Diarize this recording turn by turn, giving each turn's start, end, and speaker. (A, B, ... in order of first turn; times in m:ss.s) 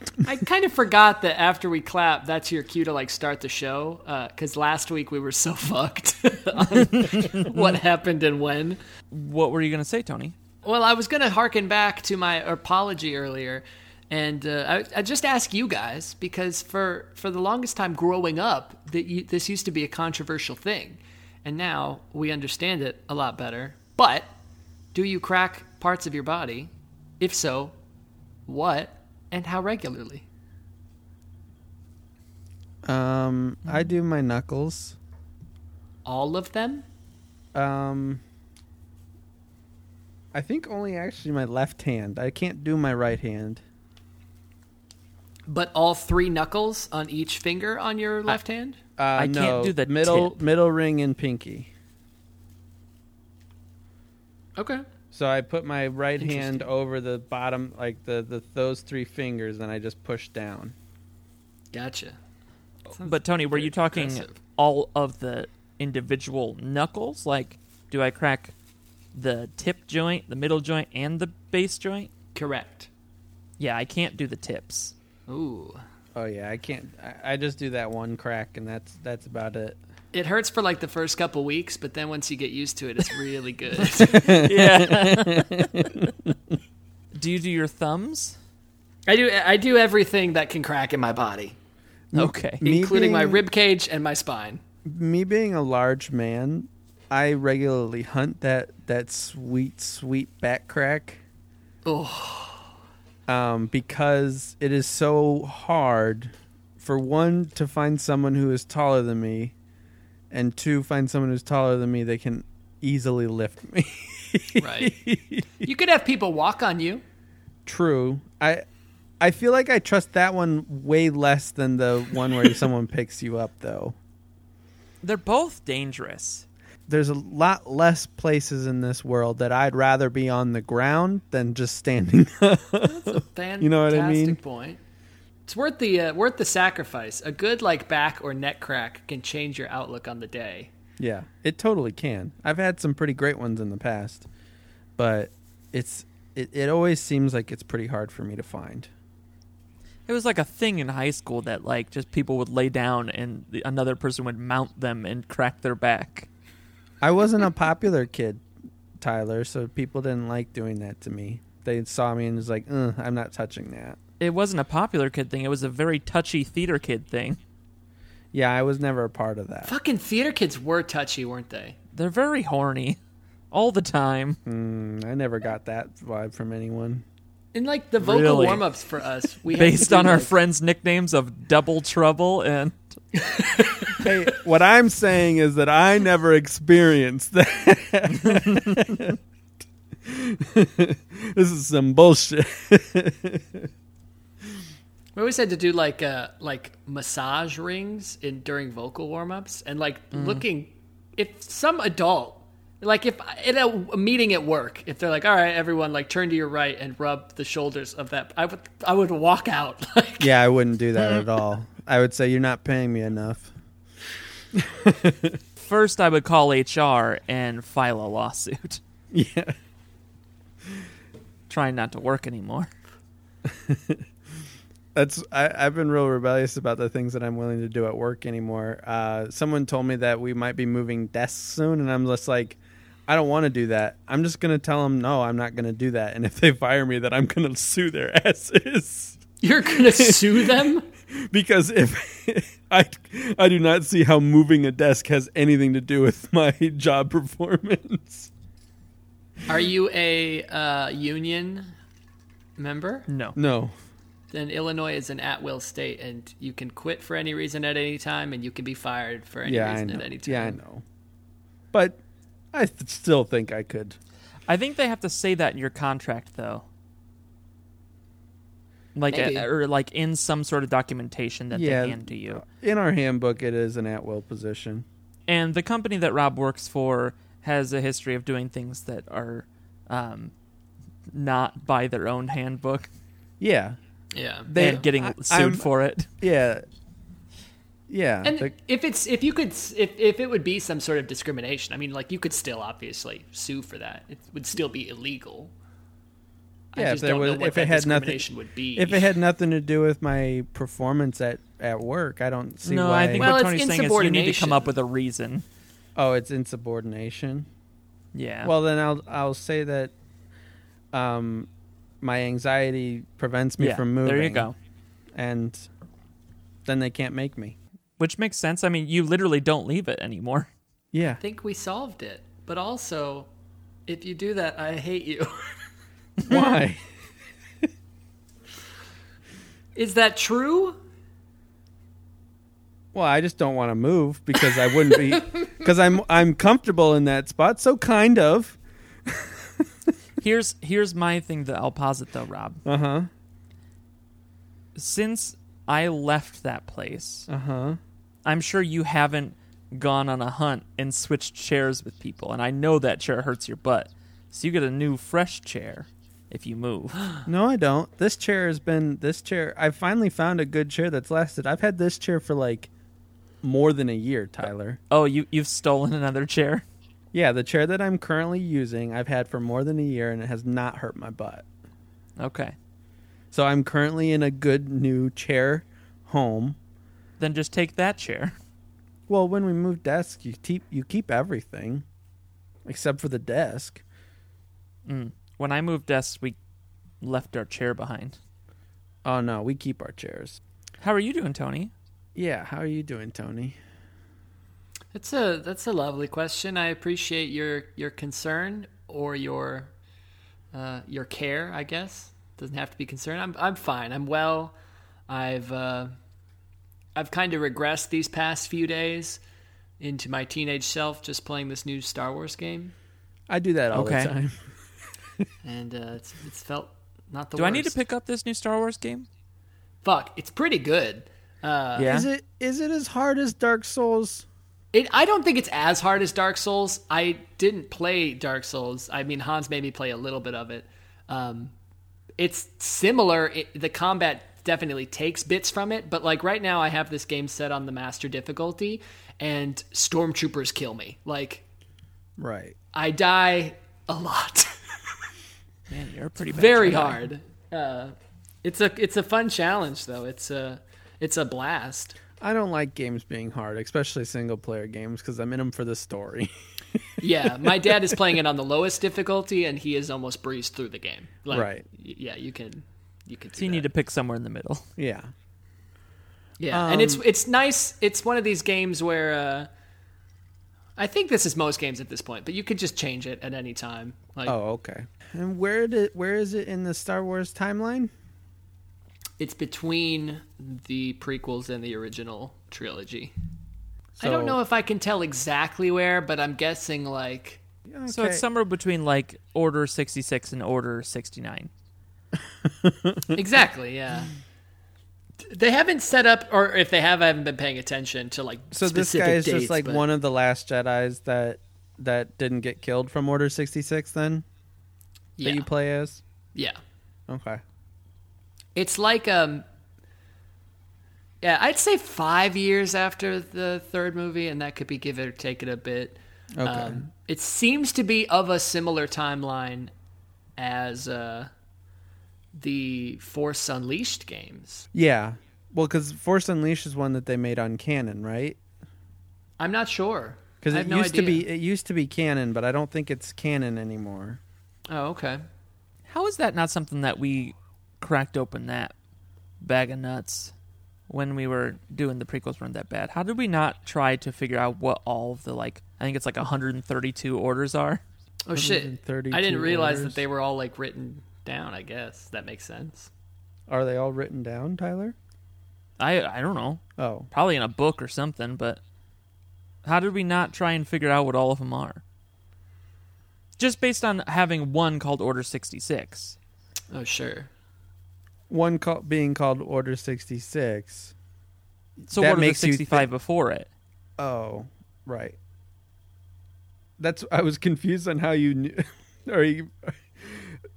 0:00.2-0:08.8 A
0:06.7-0:07.8 B
0:09.1-0:10.3 B
0:10.6-0:24.3 A
0:24.9-0:27.7 A
0:28.5-0:30.2 A
0:32.8-0:35.0 C
0:36.0-0:36.8 A
0:37.5-0:38.2 C
0:40.3-0:43.6 C
0:45.5-0:48.8 A
0:49.0-0:51.7 C
0:49.2-0:50.4 B
0:54.6-0:54.8 A
0:55.1-1:00.7 C
0:56.2-0:56.7 A
1:01.7-1:02.2 A
1:02.9-1:08.5 B
1:02.9-1:04.4 A
1:09.1-1:12.1 B
1:12.3-1:12.9 A
1:13.6-1:14.9 B
1:15.3-1:15.8 A
1:16.1-1:19.8 C
1:20.1-1:24.4 A
1:23.9-1:25.9 B
1:24.1-1:26.3 C
1:27.1-1:28.4 B
1:29.1-1:31.6 A
1:32.1-1:33.4 C
1:32.1-1:32.6 B
1:32.6-1:34.6 A
1:34.8-1:41.2 C
1:41.8-1:42.7 A
1:43.3-1:49.5 C
1:50.3-1:55.7 C
1:54.6-1:54.9 A
1:55.6-1:57.0 A
1:57.6-1:58.6 C
1:59.2-2:04.0 C
2:05.0-2:06.4 B
2:06.9-2:14.4 C
2:12.8-2:14.8 A
2:15.5-2:20.7 A
2:21.0-2:24.3 C
2:25.0-2:28.9 C
2:30.1-2:36.3 B
2:37.0-2:38.4 C
2:39.0-2:44.0 C
2:44.2-2:47.4 B
2:48.3-2:49.7 C
2:49.6-2:51.8 A
2:51.9-2:53.0 B
2:53.5-2:54.4 B
2:54.4-2:57.0 C
2:57.5-3:00.3 A
2:58.0-2:58.7 B
2:59.5-3:02.9 B
3:03.2-3:03.8 A
3:04.0-3:09.2 C
3:10.0-3:13.7 C
3:15.1-3:30.3 A
3:20.1-3:20.4 B
3:30.2-3:33.5 C
3:34.5-3:35.4 C
3:35.6-3:38.8 B
3:39.1-3:39.5 C
3:41.5-3:42.7 B
3:43.4-3:44.0 C
3:44.9-3:59.2 C
3:59.4-4:00.8 A
3:59.8-4:00.6 C
4:01.2-4:08.3 C
4:09.5-4:11.7 A
4:12.6-4:13.0 A
4:13.1-4:13.4 B
4:13.4-4:13.7 C
4:14.3-4:20.6 A
4:19.4-4:20.8 C
4:21.7-4:22.0 C
4:22.5-4:24.0 C
4:24.5-4:26.6 B
4:28.9-4:32.4 B
4:29.1-4:29.5 A
4:31.5-4:34.8 C
4:35.3-4:40.3 B
4:41.1-4:42.9 B
4:43.4-4:43.8 C
4:44.1-4:44.8 A
4:44.5-4:45.7 C
4:44.6-4:46.1 B
4:46.2-4:46.6 C
4:47.9-4:48.5 C
4:48.2-4:55.5 A
4:56.7-4:59.2 A
4:56.8-5:03.3 C
5:02.6-5:05.4 B
5:03.2-5:04.7 A
5:06.0-5:07.5 C
5:08.1-5:08.5 B
5:08.4-5:09.9 C
5:10.9-5:11.5 C
5:12.0-5:14.5 C
5:13.6-5:14.5 B
5:15.1-5:15.7 C
5:16.6-5:17.6 C
5:18.0-5:20.5 B
5:20.9-5:21.2 C
5:21.2-5:23.3 A
5:23.8-5:25.5 A
5:26.2-5:26.8 C
5:29.7-5:30.8 A
5:32.9-5:39.4 C
5:40.2-5:42.6 B
5:42.6-5:43.1 C
5:44.8-5:47.3 B
5:47.3-5:47.8 C
5:48.2-5:57.1 B
5:57.2-6:02.7 C
6:03.4-6:04.8 C
6:04.9-6:06.6 B
6:07.1-6:11.4 C
6:12.2-6:12.5 B
6:13.3-6:16.6 C
6:17.2-6:18.3 B
6:19.1-6:21.8 C
6:22.6-6:23.8 C
6:24.8-6:26.4 B
6:27.0-6:28.2 B
6:29.0-6:30.4 C
6:30.8-6:31.7 B
6:32.1-6:33.6 C
6:34.9-6:39.7 A
6:40.5-6:44.5 A
6:45.1-6:45.9 A
6:46.9-6:49.2 A
6:49.8-6:52.7 A
6:53.3-6:54.4 C
6:53.7-6:54.1 B
6:55.4-6:57.8 A
6:57.4-6:59.1 B
6:59.8-7:02.0 A
7:01.8-7:04.2 C
7:01.8-7:02.1 B
7:04.7-7:11.5 A
7:12.2-7:21.4 A
7:22.2-7:22.6 C
7:22.7-7:24.6 A
7:25.7-7:27.0 B
7:26.3-7:32.0 A
7:32.2-7:36.3 C
7:37.0-7:43.7 A
7:37.3-7:37.6 C
7:41.3-7:41.6 C
7:43.4-7:44.7 B
7:44.8-7:45.1 C
7:46.4-7:49.5 A
7:46.5-7:47.0 C
7:50.8-7:54.3 A
7:54.2-7:57.9 C
7:59.2-8:03.1 A
8:04.0-8:04.4 C
8:04.0-8:07.4 A
8:07.7-8:08.2 C
8:07.9-8:11.5 B
8:12.5-8:13.1 C
8:13.1-8:14.1 A
8:15.2-8:19.8 A
8:18.5-8:24.2 C
8:25.2-8:25.4 A
8:25.2-8:26.0 C
8:27.1-8:27.4 C
8:28.5-8:29.4 A
8:31.2-8:39.7 A
8:36.4-8:36.8 C
8:40.4-8:41.3 A
8:42.3-8:44.7 A
8:44.7-8:48.4 C
8:49.4-8:51.2 A
8:50.4-8:54.2 C
8:54.7-8:55.2 A
8:55.9-8:58.7 B
8:59.4-9:00.3 B
9:00.9-9:07.8 B
9:08.2-9:12.9 A
9:08.3-9:10.0 C
9:13.5-9:14.9 C
9:15.8-9:18.6 B
9:16.8-9:17.1 C
9:19.6-9:21.8 B
9:23.4-9:26.2 B
9:26.7-9:27.3 A
9:28.3-9:30.9 C
9:31.9-9:32.9 C
9:31.9-9:33.5 B
9:34.0-9:35.2 C
9:36.8-9:40.3 C